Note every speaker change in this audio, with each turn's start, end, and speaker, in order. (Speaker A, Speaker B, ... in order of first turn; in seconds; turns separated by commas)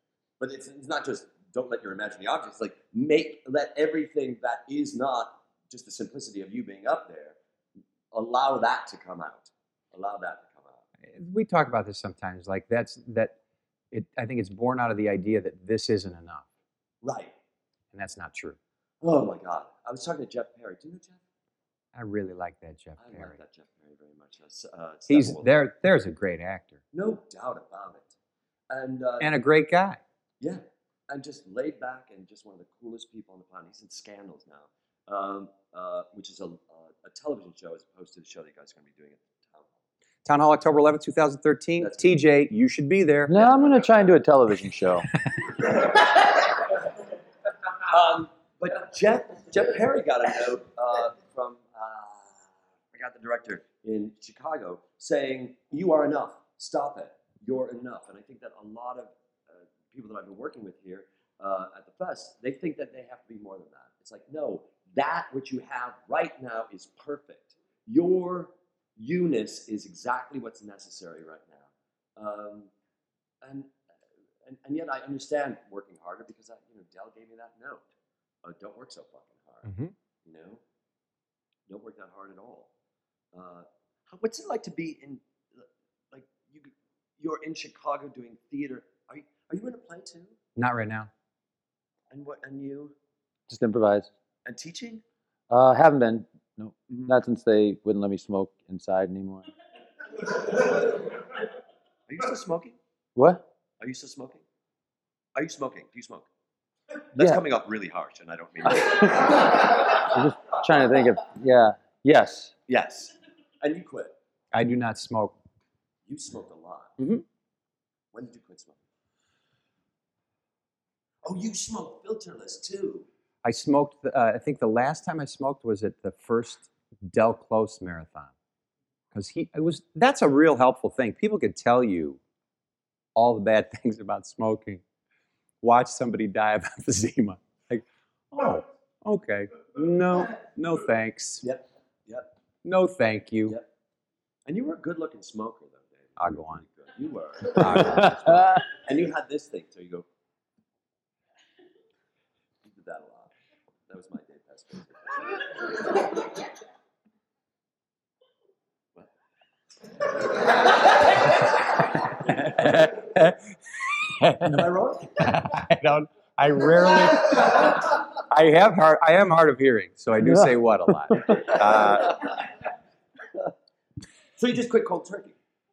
Speaker A: 0.4-7.3, Speaker A: 8.1-10.8, Speaker B: 11.1-13.3, Speaker B: 13.9-16.5, Speaker A: 17.0-17.3, Speaker B: 17.9-18.6, Speaker A: 19.0-21.2, Speaker B: 21.9-23.4, Speaker A: 23.0-25.5, Speaker B: 25.1-26.8, Speaker A: 26.9-28.1, Speaker A: 28.7-29.3, Speaker B: 29.2-30.0, Speaker A: 30.4-39.7, Speaker B: 40.2-43.5, Speaker A: 41.8-42.1, Speaker C: 43.3-45.1, Speaker A: 45.8-46.1, Speaker A: 47.8-72.7, Speaker A: 73.4-73.7, Speaker A: 74.4-77.8, Speaker A: 78.4-79.7, Speaker B: 79.6-79.9, Speaker A: 80.2-80.6, Speaker A: 81.7-82.7, Speaker A: 83.3-90.3, Speaker B: 90.5-91.1, Speaker A: 92.1-92.9, Speaker C: 93.5-94.1, Speaker A: 94.4-95.0, Speaker C: 95.5-99.5, Speaker A: 102.1-102.8, Speaker C: 103.2-103.4, Speaker A: 103.8-104.4, Speaker A: 105.3-106.2, Speaker A: 107.1-109.8, Speaker C: 108.8-112.5, Speaker A: 112.7-114.1, Speaker B: 114.5-115.3, Speaker A: 116.1-116.9, Speaker B: 117.0-117.2, Speaker A: 118.1-118.8, Speaker A: 121.2-123.1, Speaker B: 123.4-128.3, Speaker B: 129.1-132.2, Speaker B: 133.1-134.8, Speaker B: 135.6-141.4, Speaker A: 141.4-142.3, Speaker B: 142.6-143.6, Speaker A: 144.5-150.0, Speaker B: 146.2-146.6, Speaker B: 147.5-148.4, Speaker A: 152.6-153.3, Speaker A: 153.9-156.1, Speaker B: 162.2-163.4, Speaker B: 164.0-164.6, Speaker A: 164.4-165.2, Speaker B: 165.2-172.2, Speaker C: 170.2-170.5, Speaker A: 171.7-172.3, Speaker A: 174.4-175.3